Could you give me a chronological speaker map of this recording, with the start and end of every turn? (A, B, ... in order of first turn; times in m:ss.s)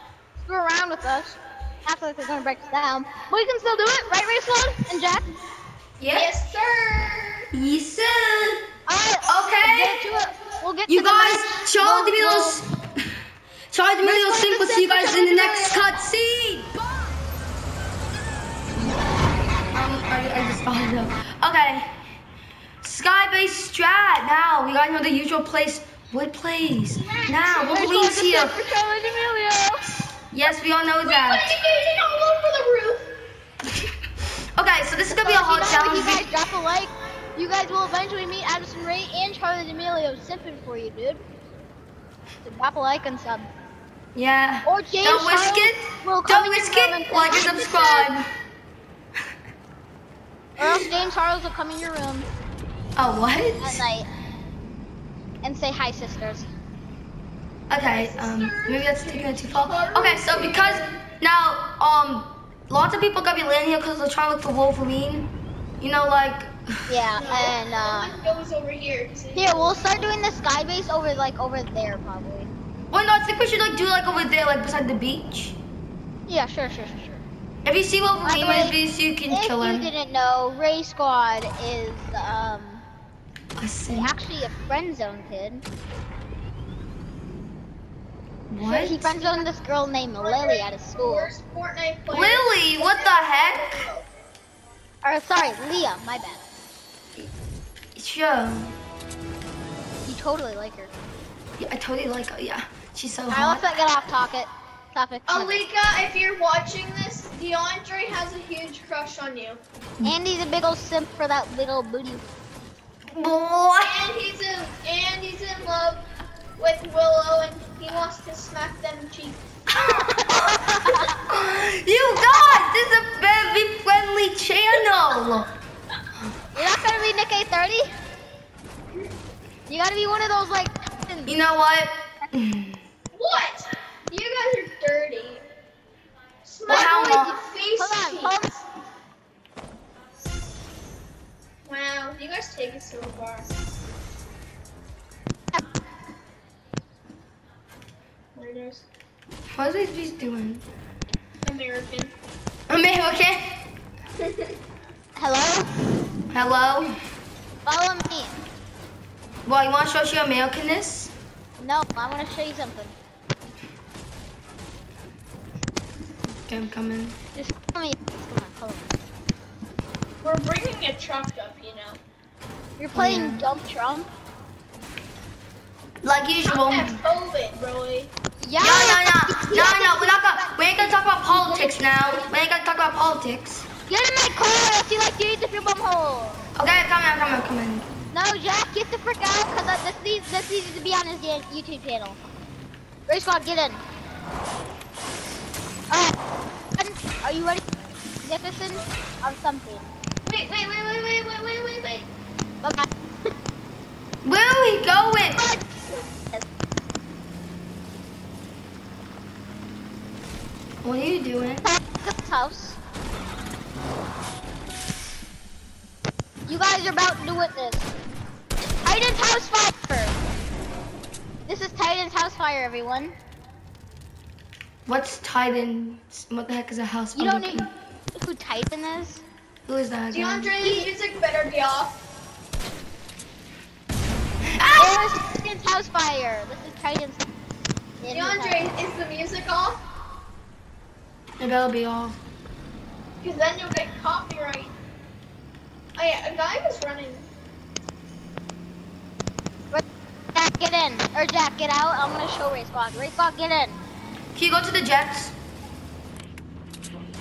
0:00.4-0:05.3 A
0:06.0-0:06.3 B
0:06.1-0:07.5 C
0:07.5-0:08.6 B
0:08.9-0:12.6 A
0:09.2-0:10.0 B
0:10.9-0:12.7 B
0:13.7-0:16.7 B
0:14.0-0:15.9 C
0:19.7-0:21.9 B
0:22.8-0:28.6 B
0:27.0-0:29.8 A
0:27.1-0:27.4 C
0:30.3-0:31.5 B
0:31.0-0:33.1 C
0:34.6-0:36.2 B
0:35.1-0:41.2 A
0:42.4-0:43.5 A
0:44.1-0:48.3 B
0:44.6-0:48.1 A
0:50.6-0:52.3 A
0:53.0-0:53.8 B
0:53.6-0:54.1 A
0:55.4-0:56.5 A
0:57.7-1:06.8 B
0:57.8-1:01.0 C
1:06.9-1:08.1 A
1:07.2-1:10.0 C
1:09.3-1:12.5 A
1:12.9-1:15.6 B
1:16.3-1:17.2 A
1:17.6-1:19.9 B
1:18.2-1:18.8 A
1:19.3-1:22.8 A
1:23.6-1:24.1 B
1:23.9-1:25.6 A
1:28.5-1:29.2 B
1:28.6-1:31.3 A
1:30.2-1:34.1 C
1:32.1-1:33.8 B
1:35.0-1:36.4 A
1:37.9-1:38.8 B
1:40.0-1:40.9 A
1:41.6-1:43.6 B
1:43.3-1:45.6 A
1:45.3-1:49.6 C
1:50.0-1:52.2 A
1:53.1-1:54.0 B
1:53.8-1:56.0 C
1:56.6-1:59.4 C
1:59.7-2:05.5 B
2:00.1-2:01.2 A
2:06.5-2:07.9 A
2:09.7-2:11.4 A
2:11.3-2:12.8 B
2:13.1-2:15.4 C
2:16.4-2:18.4 C
2:16.7-2:17.3 B
2:16.7-2:18.6 A
2:21.6-2:23.5 C
2:28.3-2:28.8 C
2:29.5-2:30.6 B
2:31.4-2:32.1 C
2:32.7-2:33.6 B
2:34.2-2:34.5 C
2:35.2-2:35.7 A
2:36.3-2:36.9 B
2:37.6-2:38.4 A
2:39.4-2:41.1 B
2:41.6-2:43.0 A
2:46.4-2:47.2 B
2:47.3-2:49.0 A
2:50.2-2:52.0 C
2:52.8-2:54.1 A
2:52.9-2:53.4 B
2:56.0-2:57.0 B
2:56.4-2:58.1 C
2:58.4-3:02.0 A
2:58.6-3:03.6 B
3:03.9-3:06.4 A
3:06.6-3:07.9 B
3:08.1-3:12.2 A
3:13.1-3:13.8 A
3:16.7-3:17.6 A
3:18.2-3:19.9 A
3:20.3-3:22.1 C
3:22.6-3:22.9 A
3:24.2-3:25.4 B
3:25.4-3:25.6 A
3:30.8-3:31.6 B
3:31.6-3:32.8 A
3:36.5-3:37.9 A
3:38.8-3:40.2 A
3:41.4-3:43.1 A
3:44.8-3:47.7 B
3:47.1-3:49.2 A
3:49.6-3:50.5 B
3:50.1-3:52.0 C
3:50.6-3:50.9 A
3:54.6-3:55.1 B
3:54.8-3:57.3 A
3:58.0-3:58.7 A
3:58.1-3:59.8 C
4:01.4-4:02.2 B
4:03.2-4:04.7 C
4:06.0-4:07.3 C
4:09.7-4:13.8 A
4:14.3-4:15.3 B